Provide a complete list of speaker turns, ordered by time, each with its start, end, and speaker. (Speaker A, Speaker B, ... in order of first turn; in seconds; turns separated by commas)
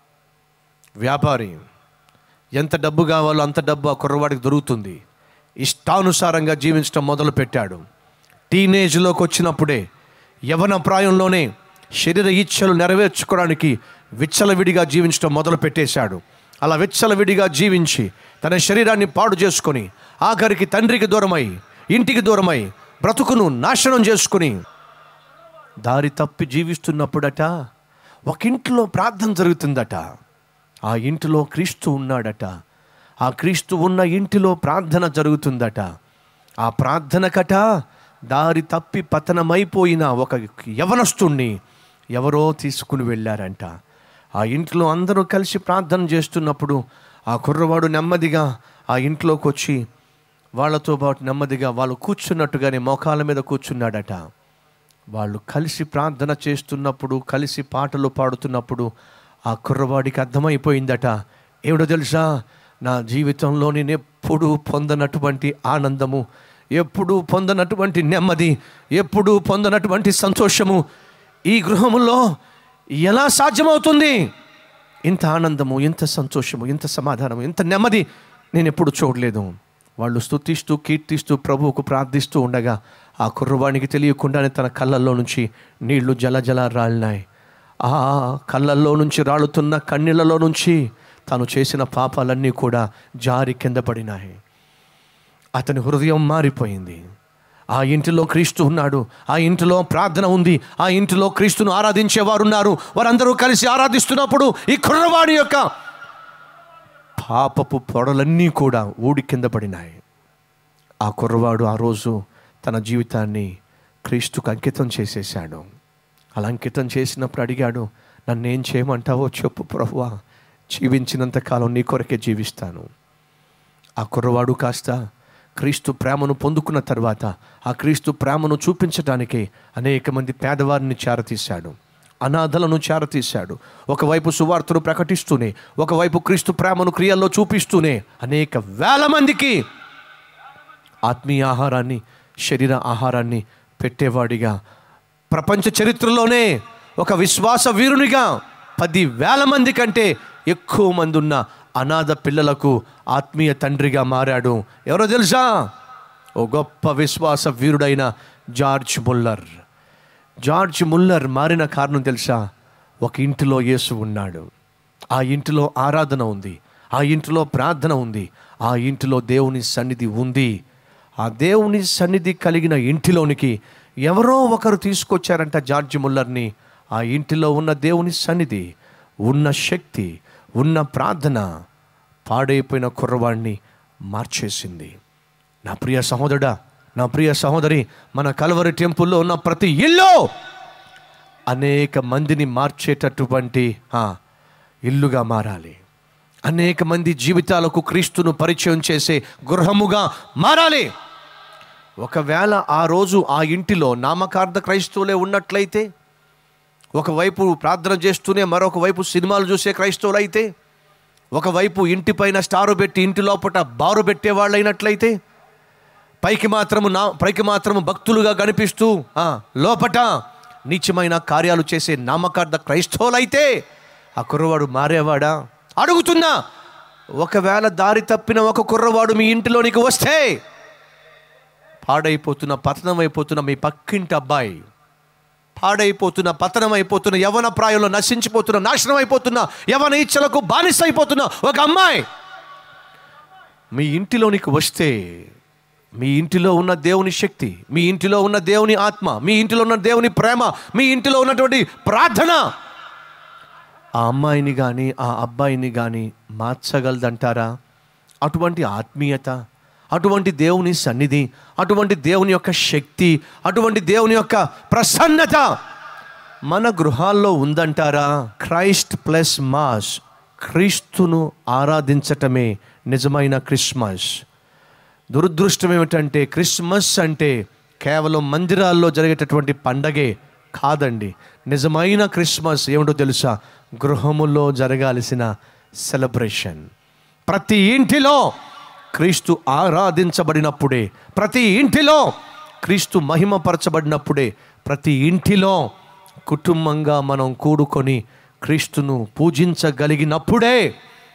Speaker A: 1.0-1.6, Speaker A: 2.6-5.0, Speaker A: 5.6-7.8, Speaker A: 8.5-9.8, Speaker A: 10.5-11.5, Speaker A: 12.0-24.6, Speaker A: 25.8-27.5, Speaker A: 28.3-30.0, Speaker A: 30.9-32.5, Speaker A: 33.2-35.9, Speaker A: 36.6-37.6, Speaker A: 38.3-41.5, Speaker A: 42.1-43.7, Speaker A: 44.4-46.8, Speaker A: 47.3-49.8, Speaker A: 50.6-54.2, Speaker A: 55.1-58.9, Speaker A: 59.5-61.1, Speaker A: 61.7-62.3, Speaker A: 62.8-66.2, Speaker A: 66.8-70.8, Speaker A: 71.5-72.2, Speaker A: 73.0-74.2, Speaker A: 75.1-87.2, Speaker A: 87.8-94.4, Speaker A: 95.6-97.0, Speaker A: 97.7-105.7, Speaker A: 107.2-110.0, Speaker A: 111.0-113.5, Speaker A: 114.0-115.6, Speaker A: 116.4-120.1, Speaker A: 120.7-122.9, Speaker A: 124.0-125.0, Speaker A: 125.6-139.6, Speaker A: 141.1-144.5, Speaker A: 145.3-155.6, Speaker A: 156.4-159.4, Speaker A: 160.4-162.4, Speaker A: 163.0-164.5, Speaker A: 165.1-170.5, Speaker A: 171.2-178.6, Speaker A: 179.3-181.4, Speaker A: 182.3-183.6, Speaker A: 184.1-184.9, Speaker A: 185.7-190.2, Speaker A: 191.5-194.1, Speaker A: 194.9-195.8, Speaker A: 196.5-200.9, Speaker A: 202.0-205.9, Speaker A: 207.0-210.5, Speaker A: 211.3-215.2, Speaker A: 216.2-220.1, Speaker A: 220.7-223.5, Speaker A: 224.2-226.3, Speaker A: 227.2-230.4, Speaker A: 231.8-234.6, Speaker A: 235.6-242.1, Speaker A: 243.7-245.2, Speaker A: 246.0-252.4, Speaker A: 254.0-257.5, Speaker A: 258.2-259.3, Speaker A: 259.9-265.5, Speaker A: 266.5-274.2, Speaker A: 275.1-285.3, Speaker A: 285.8-286.6, Speaker A: 287.3-288.3, Speaker A: 288.9-292.1, Speaker A: 292.6-295.6, Speaker A: 296.3-300.7